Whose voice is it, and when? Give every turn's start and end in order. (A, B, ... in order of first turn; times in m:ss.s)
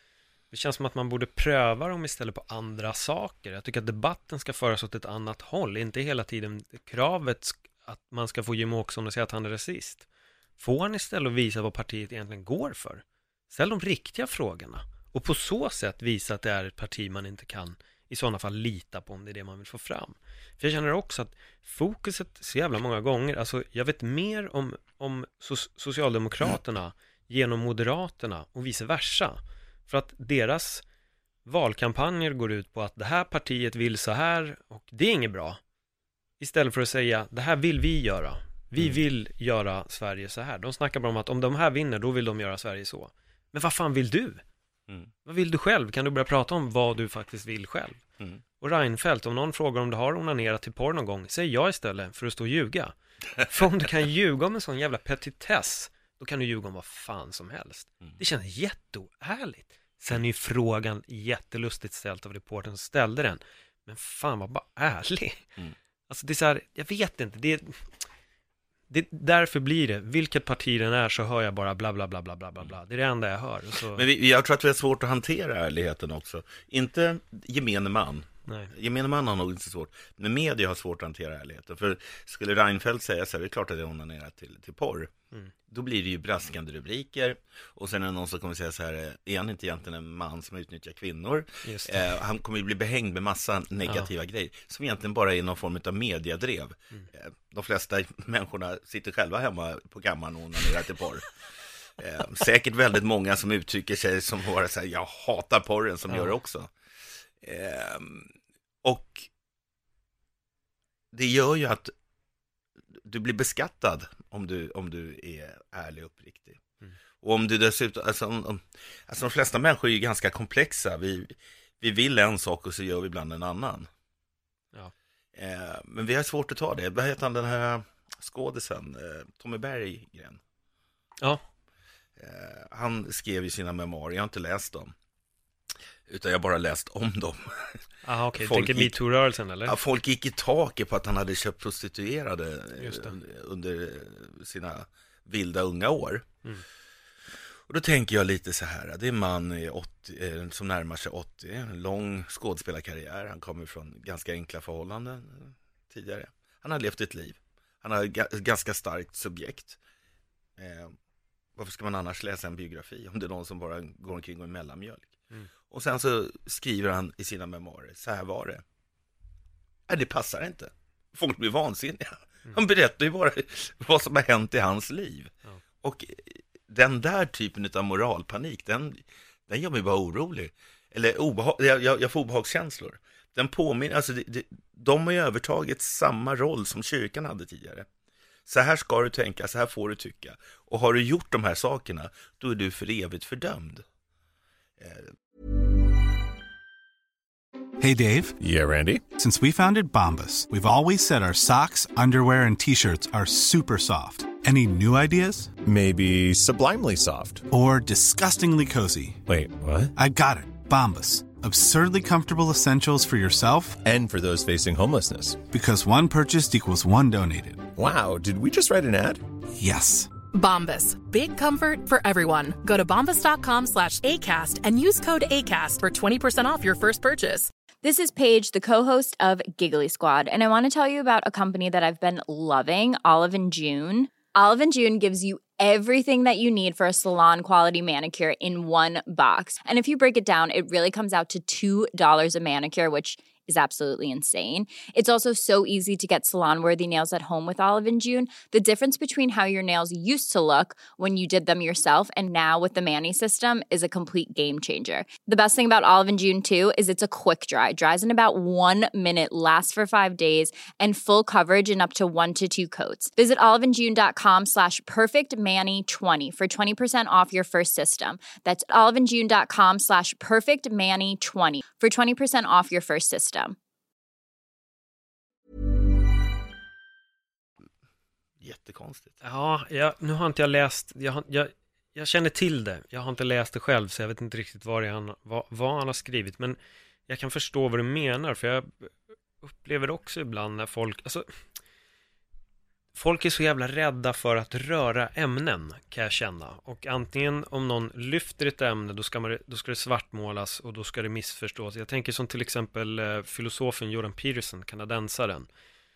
0:00.5-0:10.1 A
0:10.6-0:30.8 A
0:31.4-0:35.6 A
0:36.4-0:44.4 A
0:45.2-0:48.0 A
0:48.6-1:05.4 A
1:06.1-1:07.9 A
1:08.9-1:14.0 A
1:13.9-1:25.1 B
1:18.5-1:18.7 A
1:25.7-1:41.3 B
1:31.6-1:32.0 A
1:33.8-1:34.1 A
1:42.0-1:46.7 B
1:47.4-1:49.3 B
1:51.1-1:51.9 B
1:52.9-1:56.6 B
1:57.2-2:03.9 B
2:05.3-2:10.4 B
2:12.2-2:14.9 B
2:16.1-2:17.8 B
2:18.0-2:19.8 A
2:18.4-2:19.0 B
2:19.6-2:26.3 B
2:22.8-2:23.1 A
2:27.7-2:39.8 B
2:40.6-2:40.9 B
2:41.6-2:45.2 B
2:45.7-2:48.6 B
2:49.9-3:07.9 B
3:08.4-3:13.8 B
3:14.8-3:15.1 B
3:17.8-3:18.4 C
3:18.4-3:19.0 D
3:19.1-3:25.6 C
3:25.6-3:27.4 D
3:27.5-3:29.2 C
3:29.3-3:29.9 D
3:30.0-3:33.8 C
3:33.8-3:35.4 D
3:35.5-3:37.7 C
3:37.8-3:39.2 D
3:39.5-3:40.1 C
3:40.3-3:47.5 E
3:47.8-4:33.6 F
4:38.4-4:39.2 B
4:39.2-4:51.4 A
4:52.9-5:05.5 A